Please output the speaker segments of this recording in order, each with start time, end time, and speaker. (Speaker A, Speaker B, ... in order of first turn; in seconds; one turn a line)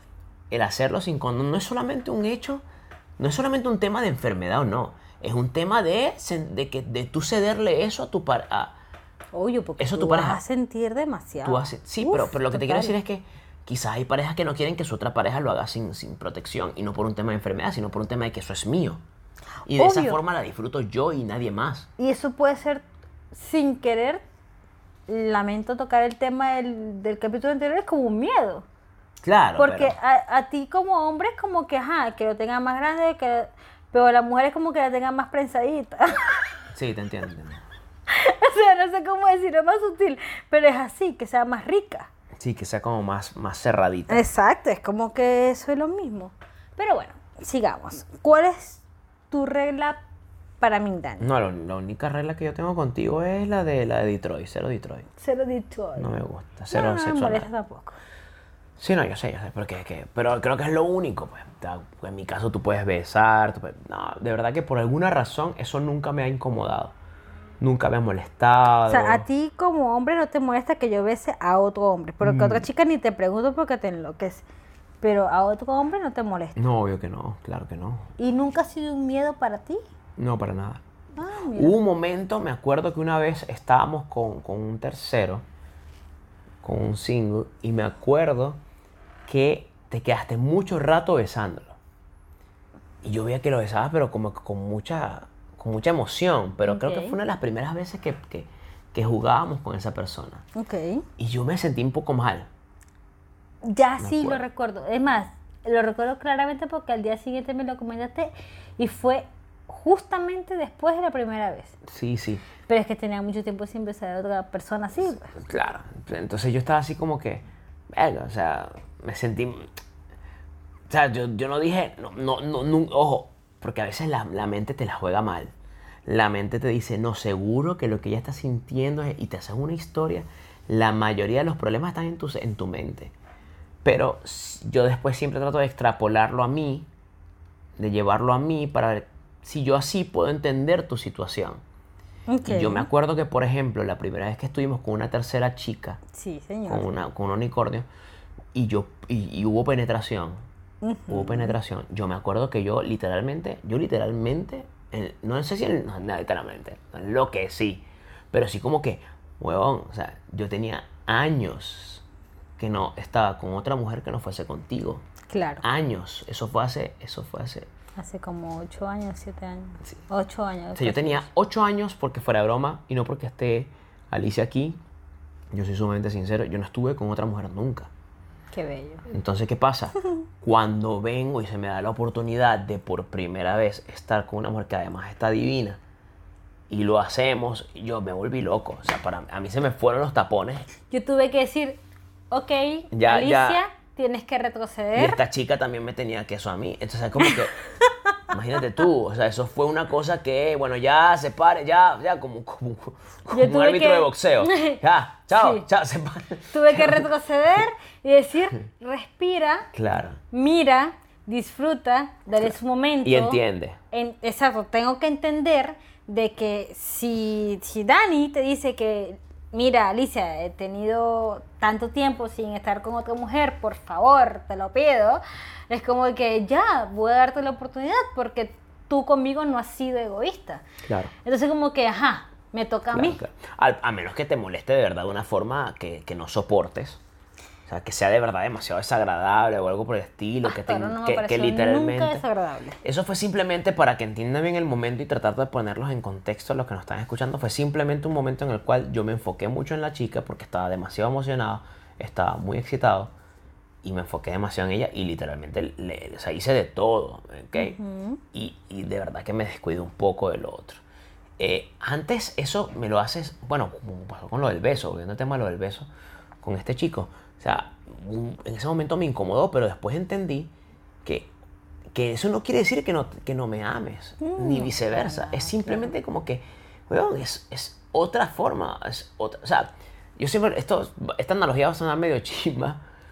Speaker A: 0.5-2.6
Speaker A: 3.2-8.8
Speaker B: 9.3-12.9
Speaker A: 9.8-10.4
Speaker A: 11.4-19.0
Speaker B: 19.7-20.2
Speaker A: 19.7-21.9
Speaker B: 22.0-24.2
Speaker B: 25.1-28.7
Speaker A: 29.2-29.9
Speaker B: 29.6-36.4
Speaker A: 36.7-37.6
Speaker B: 38.1-42.1
Speaker A: 42.4-44.2
Speaker B: 44.1-50.0
Speaker B: 50.6-51.3
Speaker A: 51.2-55.1
Speaker B: 55.2-56.2
Speaker A: 56.0-57.5
Speaker B: 56.7-58.0
Speaker A: 58.8-67.0
Speaker A: 67.6-69.2
Speaker B: 68.9-74.5
Speaker A: 72.2-72.7
Speaker B: 75.0-76.6
Speaker A: 76.6-78.1
Speaker B: 78.2-79.8
Speaker A: 80.2-80.8
Speaker B: 81.1-81.8
Speaker A: 81.5-85.4
Speaker A: 86.6-88.6
Speaker A: 89.2-91.8
Speaker A: 93.0-100.4
Speaker B: 96.6-97.2
Speaker B: 100.6-101.1
Speaker A: 101.2-102.5
Speaker B: 103.6-111.8
Speaker A: 104.0-104.4
Speaker A: 111.9-112.5
Speaker B: 112.6-115.3
Speaker A: 115.3-119.7
Speaker A: 120.9-125.5
Speaker A: 126.1-133.1
Speaker A: 133.8-136.9
Speaker A: 137.8-141.6
Speaker B: 142.3-142.9
Speaker A: 142.4-146.0
Speaker B: 146.1-146.9
Speaker A: 146.7-147.9
Speaker A: 148.5-150.4
Speaker B: 150.8-151.6
Speaker A: 151.1-162.1
Speaker A: 162.6-165.1
Speaker B: 165.3-165.6
Speaker A: 165.6-167.7
Speaker B: 168.0-171.3
Speaker A: 170.8-174.8
Speaker A: 175.5-177.9
Speaker B: 178.5-179.1
Speaker A: 179.1-185.8
Speaker A: 186.7-190.7
Speaker B: 190.9-195.2
Speaker A: 192.9-193.6
Speaker A: 194.9-197.6
Speaker B: 197.2-197.9
Speaker A: 198.3-207.1
Speaker B: 203.3-204.8
Speaker B: 205.3-205.6
Speaker B: 206.5-209.7
Speaker A: 209.7-210.2
Speaker B: 210.3-230.6
Speaker A: 212.4-213.8
Speaker A: 230.8-231.1
Speaker B: 231.2-233.2
Speaker A: 232.9-237.0
Speaker A: 237.7-242.2
Speaker B: 240.4-242.8
Speaker A: 242.8-253.1
Speaker A: 253.8-257.8
Speaker B: 257.6-258.2
Speaker A: 258.3-260.8
Speaker A: 261.4-265.9
Speaker A: 266.4-271.3
Speaker A: 271.9-282.8
Speaker B: 274.2-275.9